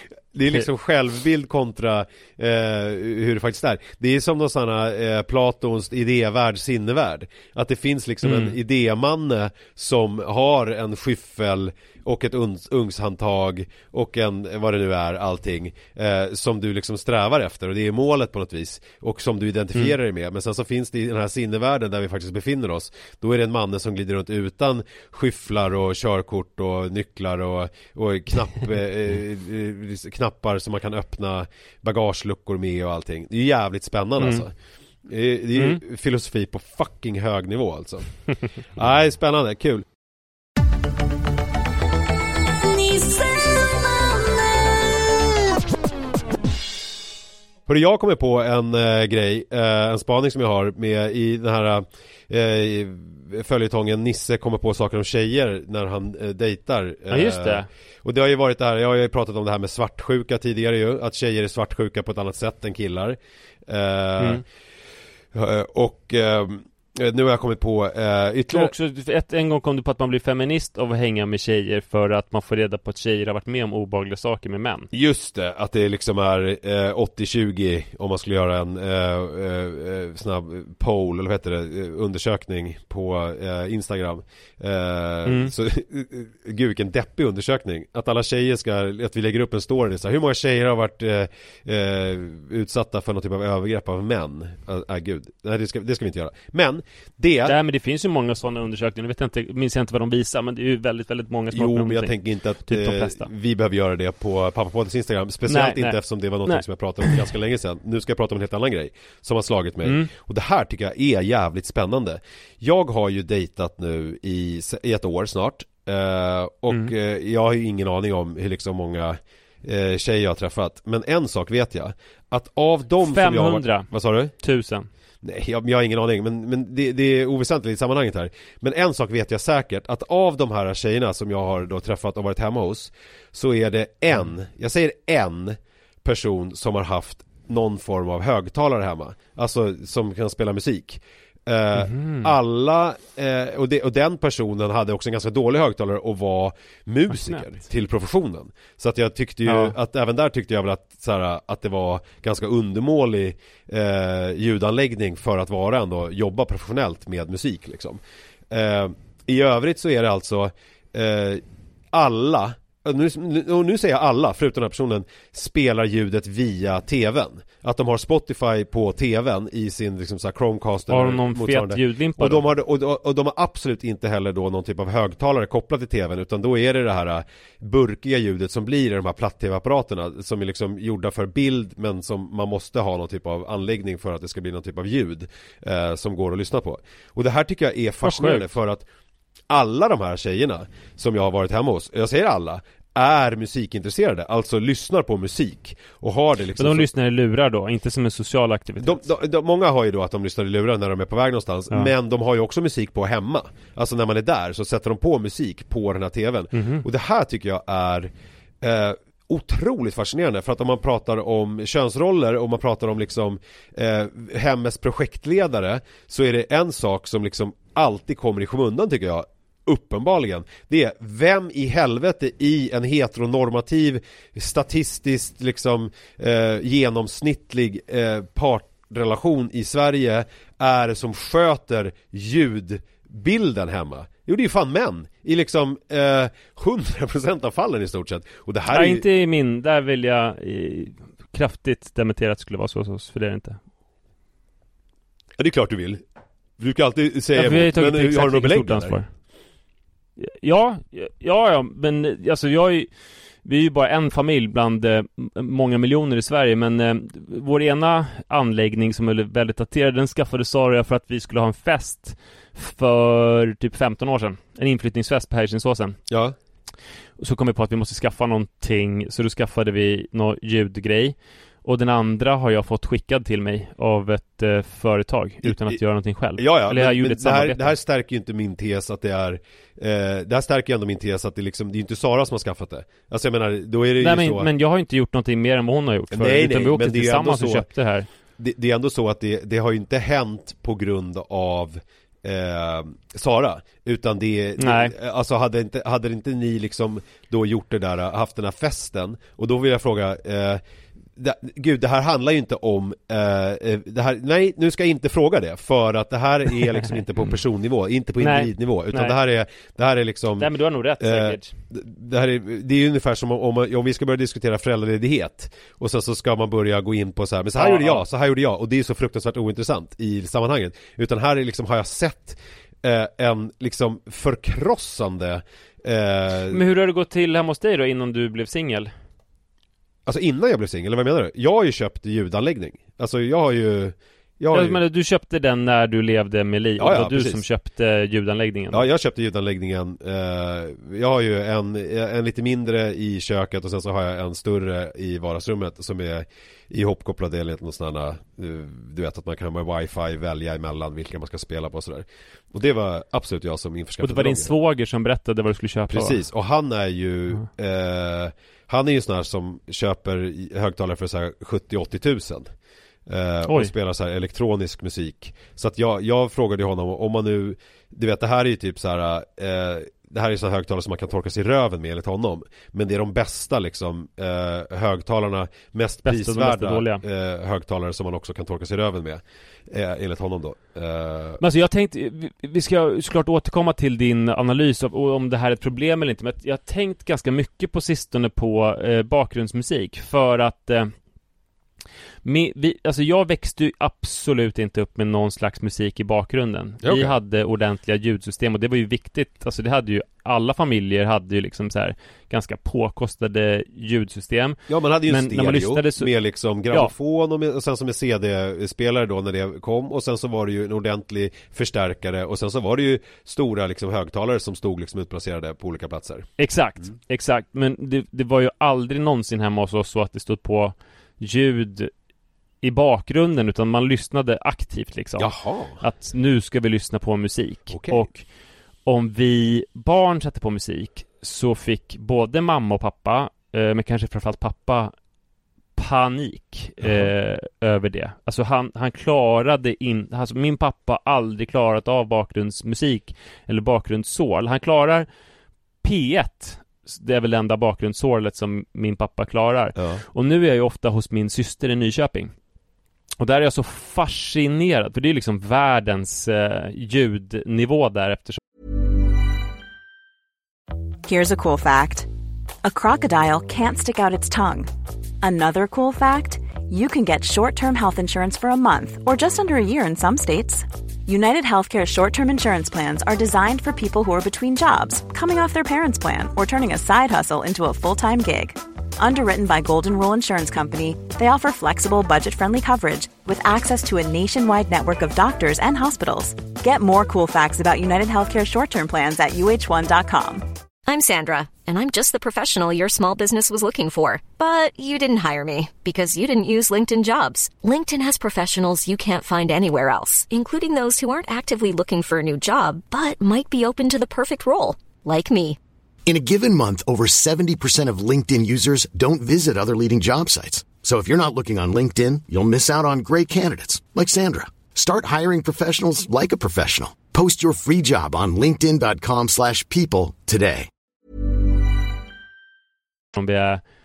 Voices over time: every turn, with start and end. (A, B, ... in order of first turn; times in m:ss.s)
0:00.3-0:34.5 A
0:08.2-0:08.6 B
0:34.2-0:34.4 B
0:35.0-0:38.1 A
0:35.5-0:35.8 B
0:38.7-0:39.8 A
0:47.7-1:04.4 A
0:57.1-0:57.7 B
1:05.3-1:08.7 A
1:08.5-1:14.9 B
1:14.9-1:37.6 A
1:25.2-1:25.5 B
1:37.4-1:43.3 B
1:41.5-2:04.3 A
1:45.5-1:47.3 B
2:03.0-2:04.9 B
2:05.2-3:08.8 A
2:21.8-2:22.3 B
2:27.1-2:27.4 B
2:29.4-2:29.7 B
2:50.9-2:52.4 B
3:08.0-3:08.4 B
3:09.5-3:16.9 A
3:16.6-3:19.0 B
3:18.8-3:59.0 A
3:26.5-3:26.8 B
3:58.7-4:03.6 B
4:05.4-4:06.0 A
4:06.6-4:09.0 A
4:07.3-4:09.1 B
4:10.2-4:12.9 B
4:13.4-4:26.0 B
4:26.1-4:26.4 A
4:27.2-4:37.7 B
4:35.4-4:35.8 A
4:36.4-4:44.5 A
4:44.0-4:48.1 B
4:46.1-4:47.7 A
4:48.4-5:00.6 A
4:54.6-4:54.9 B
5:01.2-5:26.6 A
5:08.2-5:09.2 B
5:10.4-5:11.5 B
5:17.6-5:18.0 B
5:26.5-5:28.9 B
5:30.0-5:34.8 A
5:34.5-5:38.8 B
5:36.8-5:37.4 A
5:38.7-5:54.5 A
5:54.0-5:56.2 B
5:55.9-6:02.5 A
6:03.1-6:21.4 A
6:03.5-6:03.7 B
6:16.0-6:17.0 B
6:21.4-6:30.9 B
6:32.2-6:46.1 B
6:36.8-6:37.2 A
6:44.7-6:56.3 A
6:56.4-7:01.9 B
7:02.6-7:08.2 B
7:05.2-7:05.8 A
7:07.7-7:08.0 A
7:08.8-7:14.9 B
7:15.8-7:25.1 B
7:16.8-7:17.1 A
7:25.8-7:32.3 B
7:29.8-7:30.0 A
7:33.2-7:38.4 B
7:41.0-7:42.1 C
7:42.6-7:44.7 C
7:45.2-8:10.4 C
8:10.9-8:25.6 D
8:26.0-8:40.7 E
8:43.1-8:43.6 B